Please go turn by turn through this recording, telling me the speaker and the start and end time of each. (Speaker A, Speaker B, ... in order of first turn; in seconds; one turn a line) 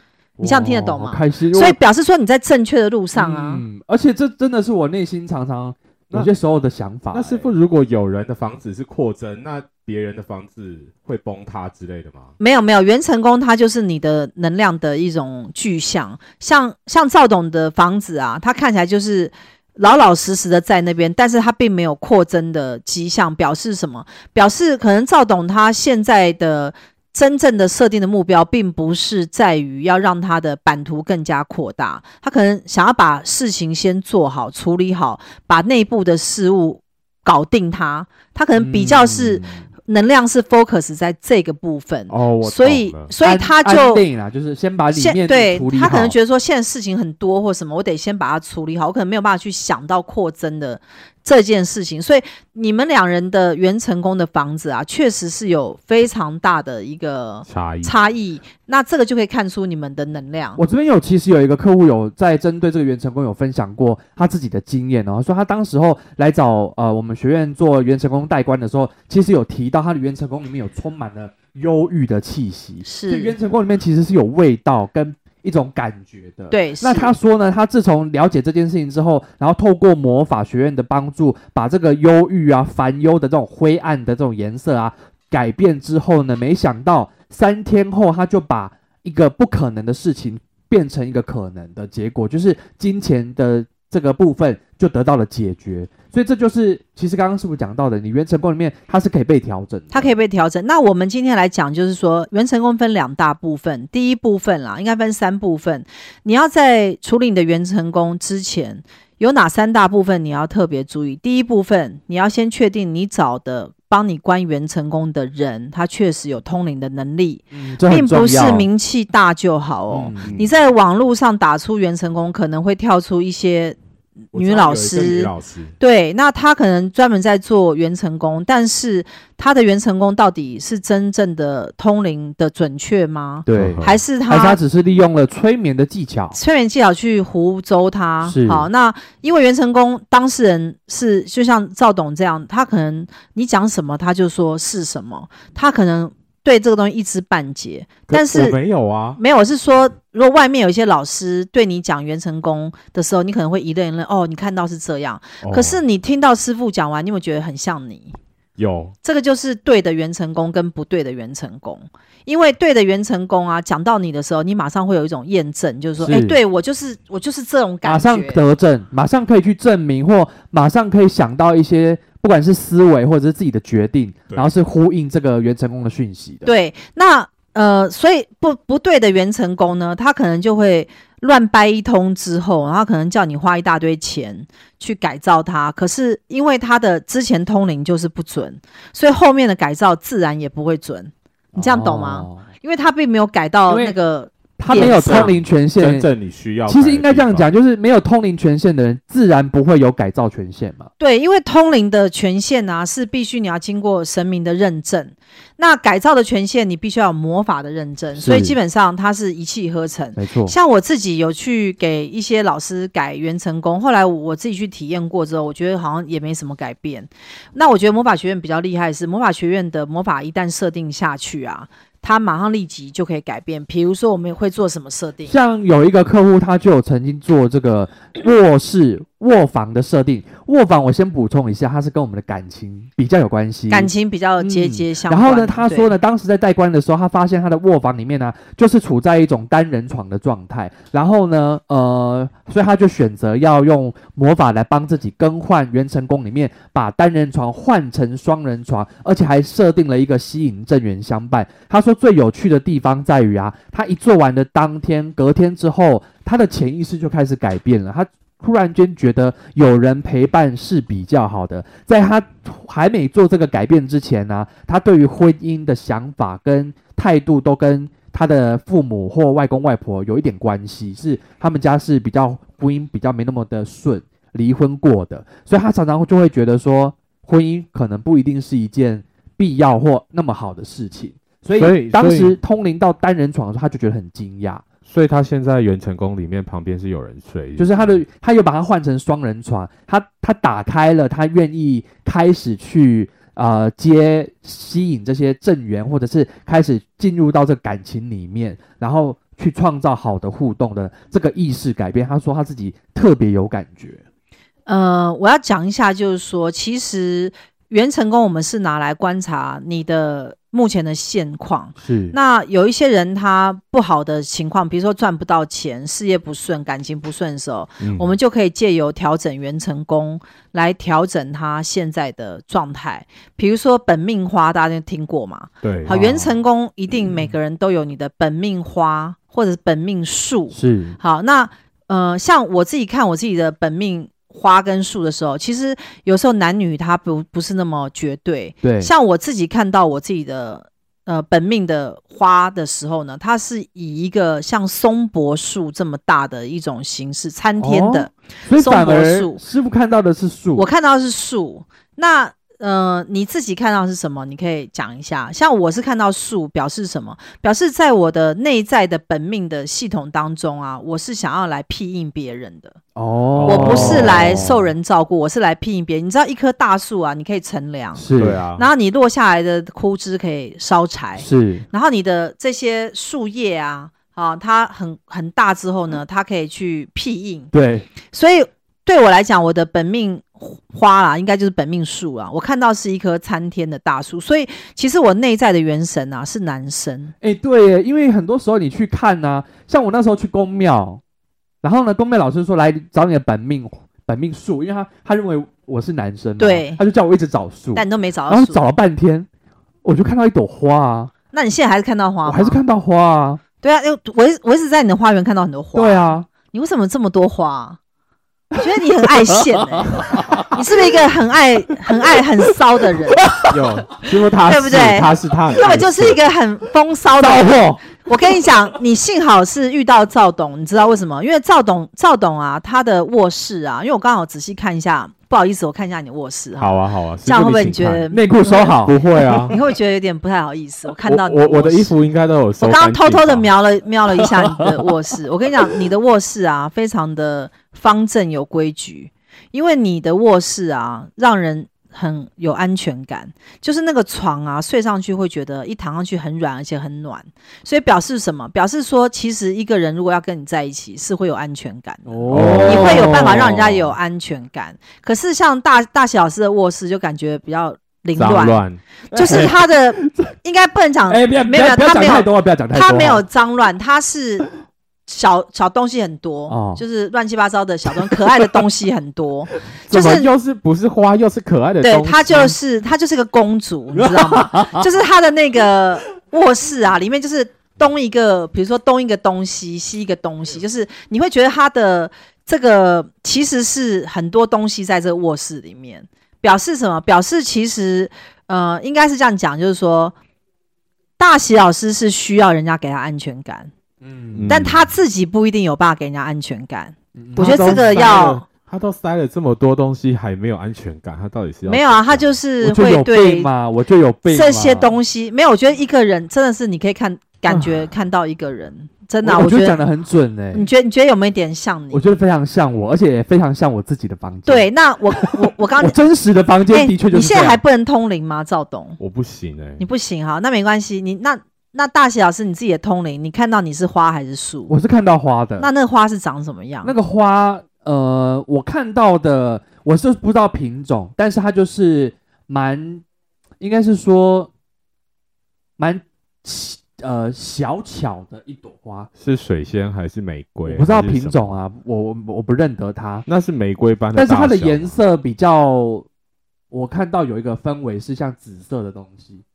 Speaker A: 0.4-1.8
Speaker B: 0.4-3.6
Speaker A: 3.1-7.5
Speaker C: 7.1-12.3
Speaker B: 12.4-44.0
Speaker A: 38.5-39.6
Speaker C: 42.1-43.1
Speaker A: 43.2-46.1
Speaker B: 44.9-60.6
Speaker C: 57.5-57.9
Speaker A: 60.6-100.1
Speaker B: 72.8-73.4
Speaker B: 76.5-77.1
Speaker B: 99.9-123.8
Speaker A: 117.5-118.7
Speaker A: 119.9-120.3
Speaker C: 120.2-120.5
Speaker B: 124.3-134.6
Speaker C: 124.3-125.7
Speaker A: 133.5-136.4
Speaker C: 133.5-134.0
Speaker B: 136.3-148.6
Speaker A: 138.2-138.7
Speaker C: 148.1-149.2
Speaker B: 149.2-158.1
Speaker C: 155.4-155.8
Speaker C: 158.6-158.9
Speaker B: 159.0-168.4
Speaker A: 166.0-166.4
Speaker A: 167.8-176.5
Speaker B: 176.4-195.3
Speaker A: 191.5-192.4
Speaker A: 194.6-196.1
Speaker C: 194.7-197.5
Speaker A: 196.7-200.9
Speaker B: 201.0-225.3
Speaker A: 208.2-208.6
Speaker A: 210.2-210.5
Speaker A: 225.3-284.6
Speaker B: 233.7-235.9
Speaker C: 281.6-282.4
Speaker C: 284.9-288.0
Speaker A: 287.6-304.0
Speaker B: 304.7-349.4
Speaker A: 311.8-312.2
Speaker C: 317.8-318.1
Speaker C: 325.6-326.0
Speaker A: 325.9-326.3
Speaker A: 330.5-331.0
Speaker A: 338.6-338.9
Speaker A: 347.6-350.7
Speaker B: 350.6-362.8
Speaker A: 362.9-364.7
Speaker C: 363.4-364.2
Speaker B: 363.4-368.0
Speaker A: 367.9-368.4
Speaker C: 368.1-368.7
Speaker B: 368.6-377.5
Speaker A: 371.2-371.6
Speaker A: 377.5-377.9
Speaker B: 378.1-387.1
Speaker A: 387.2-391.0
Speaker A: 391.6-399.3
Speaker B: 396.4-396.8
Speaker B: 397.7-398.6
Speaker A: 399.8-401.1
Speaker B: 401.3-402.6
Speaker A: 402.2-403.4
Speaker B: 403.6-407.8
Speaker A: 405.7-406.3
Speaker B: 408.6-413.3
Speaker A: 409.4-411.0
Speaker A: 411.9-412.2
Speaker A: 413.2-413.6
Speaker C: 413.5-416.2
Speaker B: 414.4-431.9
Speaker A: 417.2-417.9
Speaker C: 426.6-428.1
Speaker A: 428.1-429.0
Speaker C: 428.9-429.6
Speaker C: 431.0-433.5
Speaker B: 432.6-464.5
Speaker A: 452.0-453.5
Speaker C: 452.3-453.9
Speaker C: 458.1-458.8
Speaker A: 459.1-460.3
Speaker A: 461.1-463.2
Speaker B: 465.1-470.3
Speaker A: 466.5-466.8
Speaker A: 468.0-468.6
Speaker C: 469.9-472.5
Speaker B: 471.8-490.1
Speaker A: 473.9-474.9
Speaker B: 491.2-493.7
Speaker A: 494.0-494.5
Speaker C: 494.4-494.9
Speaker B: 494.5-498.4
Speaker A: 497.2-498.0
Speaker C: 497.4-502.4
Speaker B: 501.6-503.5
Speaker A: 502.6-504.9
Speaker B: 504.3-509.8
Speaker A: 507.5-507.8
Speaker A: 509.2-510.7
Speaker B: 510.5-512.0
Speaker A: 511.9-517.6
Speaker B: 514.5-516.0
Speaker B: 516.7-519.0
Speaker C: 519.0-519.8
Speaker B: 519.8-524.7
Speaker A: 524.7-525.7
Speaker B: 525.6-526.9
Speaker A: 526.8-533.0
Speaker A: 533.6-534.5
Speaker A: 535.8-539.1
Speaker C: 539.2-541.5
Speaker A: 540.7-543.2
Speaker C: 543.3-544.9
Speaker A: 544.1-546.1
Speaker A: 546.7-549.4